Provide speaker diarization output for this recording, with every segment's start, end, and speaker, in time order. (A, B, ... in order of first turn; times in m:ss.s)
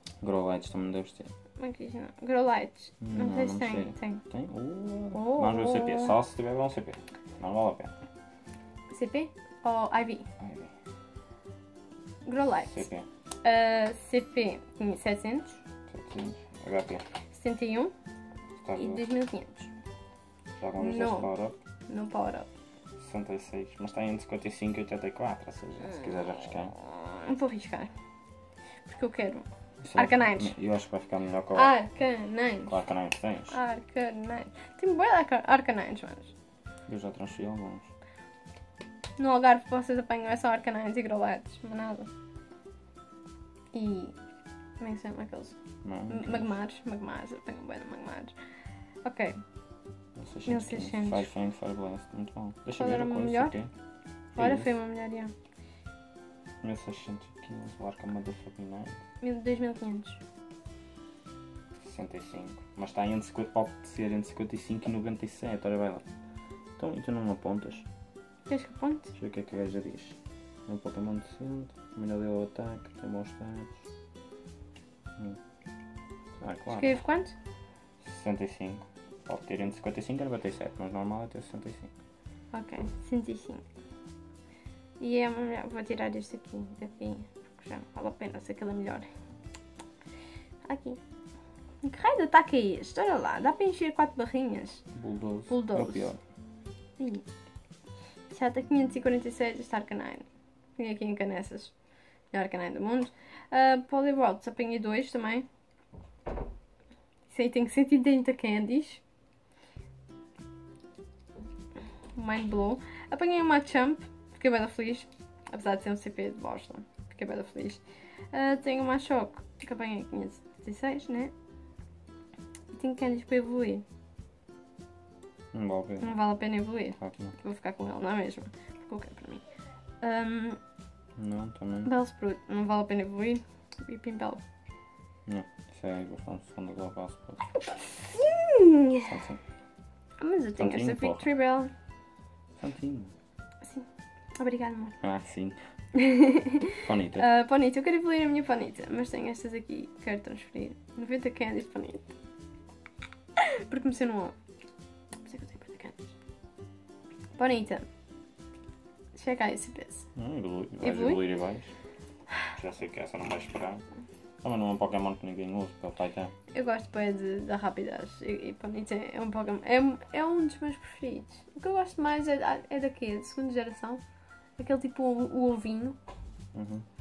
0:00.2-0:01.3 A
0:01.6-0:04.2 B
0:03.0-0:07.9 A
0:05.1-0:06.2 B
0:08.9-0:10.2 B
0:10.4-0:10.7 A
0:12.2-0:12.9 B
0:12.7-0:13.1 A
0:13.4-0:15.6 B
0:15.9-0:17.0 A
0:17.3-0:17.9 B
0:18.6-0:19.1 A
0:18.8-0:19.7 B
0:20.6-0:21.6 A
0:20.8-0:21.3 B
0:21.9-0:22.5 B
0:23.0-0:26.7 A
0:26.7-0:27.9 B
0:28.9-0:30.5 B
0:29.8-0:31.7 A
0:31.6-0:32.7 B
0:32.7-0:33.6 A
0:33.5-0:36.3 B
0:36.9-0:37.9 A
0:39.2-0:42.1 B
0:43.7-0:44.1 B
0:44.8-0:45.6 B
0:45.8-0:46.5 A
0:46.1-0:48.3 B
0:49.0-0:49.4 B
0:50.2-0:53.7 A
0:50.5-0:51.3 B
0:52.8-0:53.6 B
0:54.3-0:54.8 A
0:54.4-0:55.3 B
0:56.6-0:59.0 A
0:59.2-1:00.2 B
1:01.8-1:06.0 A
1:06.8-1:07.9 A
1:08.5-1:09.1 B
1:09.1-1:13.8 A
1:16.4-1:17.0 A
1:16.7-1:17.4 B
1:18.0-1:21.9 A
1:22.5-1:23.6 B
1:25.0-1:29.1 B
1:30.6-1:31.0 B
1:31.8-1:34.8 B
1:34.9-1:36.2 A
1:35.5-1:36.1 B
1:37.0-1:37.2 B
1:38.3-1:40.2 B
1:40.8-1:41.7 B
1:42.3-1:45.5 B
1:47.3-1:49.0 B
1:52.2-2:01.3 B
2:02.7-2:03.8 B
2:05.5-2:06.2 A
2:06.0-2:09.4 B
2:07.0-2:07.3 A
2:10.0-2:10.6 B
2:11.2-2:11.9 A
2:11.8-2:14.4 B
2:15.3-2:17.4 A
2:18.1-2:19.1 B
2:19.0-2:19.4 A
2:20.2-2:21.7 B
2:20.6-2:21.3 A
2:22.6-2:23.1 A
2:23.6-2:25.0 B
2:25.0-2:25.6 A
2:25.9-2:32.1 B
2:26.8-2:27.2 A
2:33.4-2:34.4 B
2:35.2-2:36.1 B
2:37.4-2:37.9 B
2:39.1-2:40.1 B
2:40.1-2:41.7 A
2:40.8-2:41.2 B
2:42.5-2:43.8 A
2:44.4-2:46.3 A
2:46.5-2:54.0 B
2:54.6-2:56.0 B
2:56.5-2:56.9 A